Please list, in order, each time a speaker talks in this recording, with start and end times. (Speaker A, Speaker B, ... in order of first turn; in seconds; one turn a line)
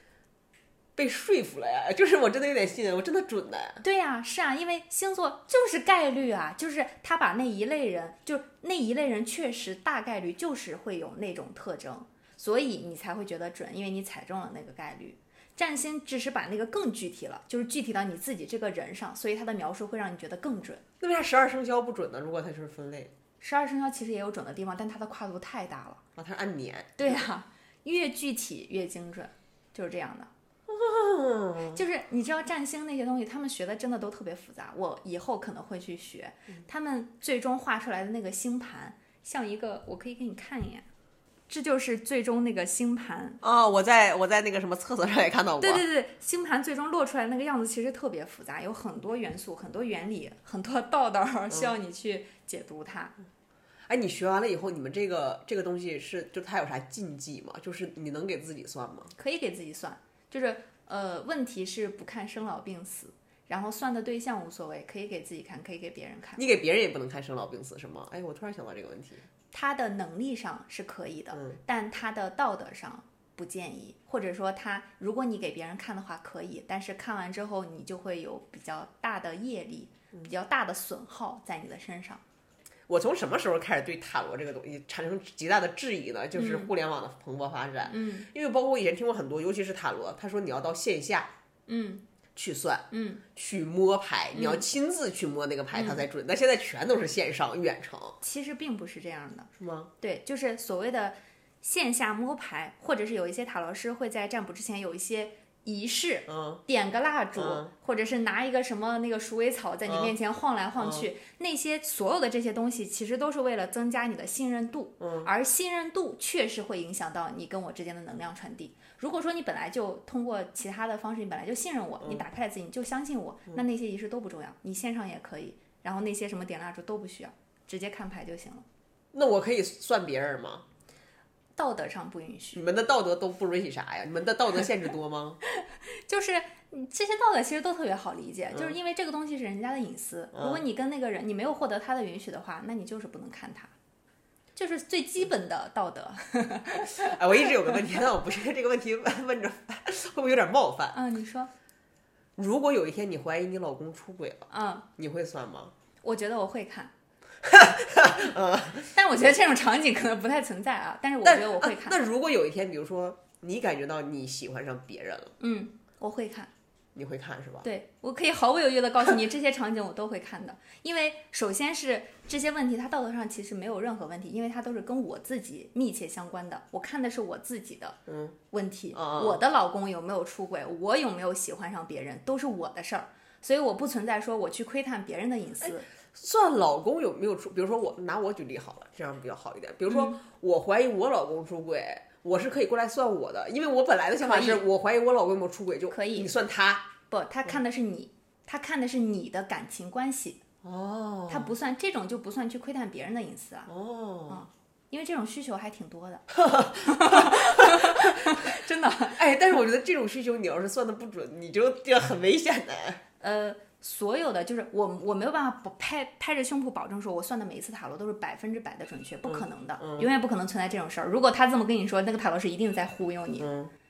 Speaker A: 0.9-3.8
Speaker B: 3.8-20.8
Speaker A: 21.0-23.1
Speaker B: 23.4-26.0
Speaker A: 26.1-27.2
Speaker B: 27.0-30.3
Speaker A: 30.7-31.8
Speaker B: 31.7-40.9
Speaker B: 41.5-43.4
Speaker A: 43.4-45.8
Speaker B: 45.6-53.1
Speaker A: 53.9-59.1
Speaker B: 59.2-66.4
Speaker A: 66.4-69.2
Speaker B: 69.5-82.2
Speaker A: 71.3-71.6
Speaker A: 82.9-91.3
Speaker B: 86.3-86.7
Speaker B: 87.9-88.3
Speaker B: 91.7-92.0
Speaker A: 92.3-98.2
Speaker B: 92.9-93.2
Speaker B: 94.3-94.6
Speaker B: 95.7-96.0
Speaker B: 98.2-128.6
Speaker A: 99.6-99.9
Speaker A: 106.3-106.6
Speaker A: 107.3-107.7
Speaker A: 109.9-110.1
Speaker A: 110.8-111.1
Speaker A: 115.0-115.3
Speaker A: 129.1-130.6
Speaker B: 131.6-132.6
Speaker A: 132.5-135.4
Speaker B: 135.6-143.7
Speaker A: 140.3-140.6
Speaker B: 144.5-147.8
Speaker A: 146.8-151.0
Speaker B: 150.9-151.5
Speaker A: 152.4-155.7
Speaker B: 154.5-154.9
Speaker B: 156.0-156.9
Speaker A: 157.4-158.9
Speaker B: 158.9-162.0
Speaker A: 161.2-165.3
Speaker B: 165.4-166.5
Speaker A: 166.9-167.7
Speaker B: 167.6-178.0
Speaker A: 178.1-178.3
Speaker B: 178.5-185.9
Speaker A: 178.9-179.4
Speaker A: 185.6-196.9
Speaker B: 189.9-190.2
Speaker B: 194.2-194.6
Speaker B: 195.9-196.3
Speaker B: 197.1-200.4
Speaker A: 200.6-201.5
Speaker B: 201.3-203.7
Speaker A: 203.7-204.4
Speaker B: 204.3-206.2
Speaker A: 206.3-208.4
Speaker B: 206.8-209.2
Speaker A: 209.1-213.0
Speaker B: 213.2-223.5
Speaker A: 219.3-220.1
Speaker A: 223.4-223.7